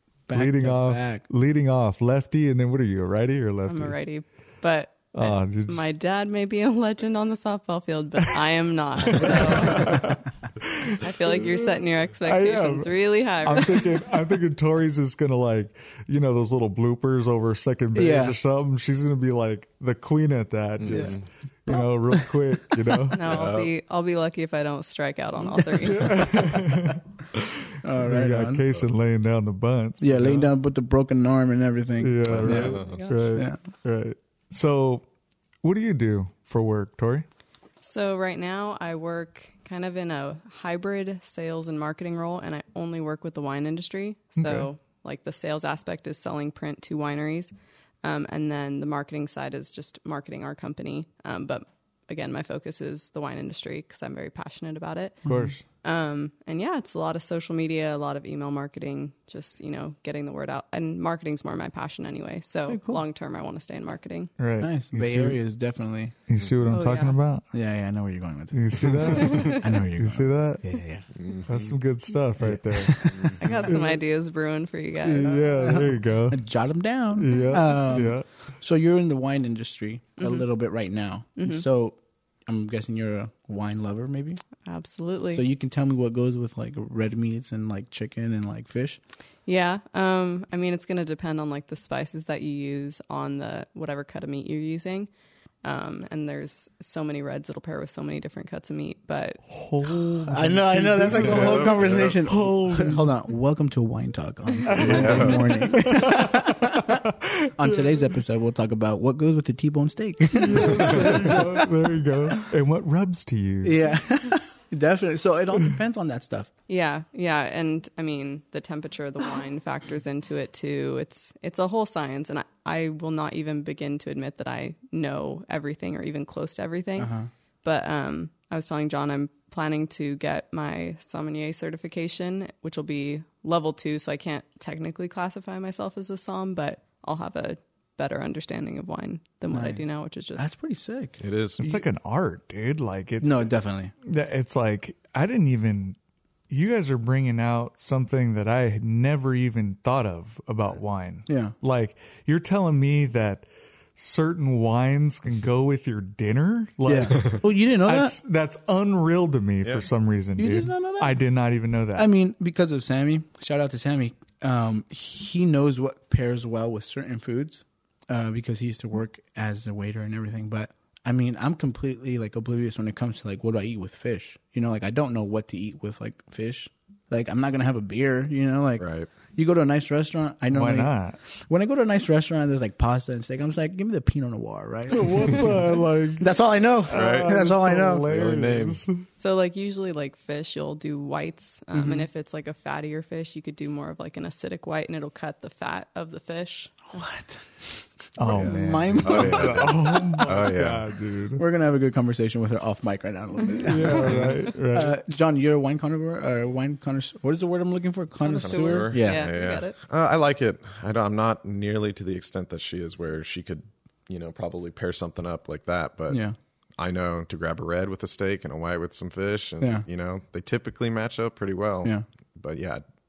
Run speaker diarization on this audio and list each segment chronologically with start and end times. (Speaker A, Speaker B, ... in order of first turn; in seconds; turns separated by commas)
Speaker A: 0.3-1.2, Speaker B: 0.3-4.0, Speaker C: 3.7-10.2, Speaker B: 5.1-5.9, Speaker B: 9.1-23.2, Speaker C: 11.0-14.0, Speaker A: 17.9-18.4, Speaker D: 20.8-21.2, Speaker A: 20.9-21.1, Speaker A: 21.7-22.3, Speaker C: 23.1-26.6, Speaker D: 23.2-23.7, Speaker B: 25.8-27.0, Speaker A: 27.8-28.7, Speaker B: 28.0-30.5, Speaker A: 30.0-33.6, Speaker B: 32.0-35.0, Speaker D: 32.2-33.0, Speaker B: 35.6-37.3, Speaker C: 37.8-47.5, Speaker B: 44.4-44.7, Speaker C: 48.0-55.2, Speaker A: 55.2-55.5, Speaker B: 55.2-55.6, Speaker C: 55.8-64.3, Speaker A: 62.7-63.0, Speaker B: 64.4-65.4, Speaker A: 64.6-66.1, Speaker B: 66.3-67.5, Speaker C: 66.7-67.2, Speaker A: 67.5-71.0, Speaker B: 68.5-70.8, Speaker C: 69.2-69.7, Speaker D: 71.2-71.6, Speaker B: 71.5-74.0, Speaker A: 72.4-73.4, Speaker D: 73.1-73.5, Speaker C: 73.4-75.8, Speaker B: 75.0-76.4, Speaker A: 75.6-84.4, Speaker B: 77.2-78.3, Speaker C: 80.2-80.4, Speaker C: 81.4-81.7, Speaker C: 84.7-85.4, Speaker A: 85.3-89.0, Speaker C: 89.5-95.1, Speaker C: 95.6-99.4, Speaker B: 99.5-103.1, Speaker A: 100.2-111.7, Speaker D: 101.1-102.2, Speaker B: 104.7-108.0, Speaker D: 104.7-105.7, Speaker B: 110.3-113.9, Speaker A: 113.6-116.5, Speaker C: 116.7-140.4, Speaker A: 127.0-127.3, Speaker A: 139.5-139.8, Speaker A: 140.4-141.8, Speaker D: 141.2-141.7, Speaker B: 141.6-143.5, Speaker A: 143.2-143.9, Speaker B: 144.0-146.0, Speaker B: 146.5-162.1, Speaker A: 151.3-151.5, Speaker A: 156.9-158.2, Speaker A: 160.4-161.2, Speaker A: 162.0-185.7, Speaker D: 178.8-179.1, Speaker B: 180.5-181.2, Speaker B: 184.9-189.1, Speaker A: 186.2-188.1, Speaker D: 186.9-187.4, Speaker D: 188.0-188.8, Speaker C: 189.2-197.0, Speaker A: 191.7-192.1, Speaker A: 196.9-197.6, Speaker B: 198.2-201.4, Speaker D: 198.2-200.9, Speaker A: 198.3-200.1, Speaker A: 201.3-209.3, Speaker B: 203.6-205.0, Speaker D: 203.9-204.4, Speaker C: 208.2-209.8, Speaker D: 208.4-216.2, Speaker A: 216.1-216.3, Speaker D: 216.8-222.8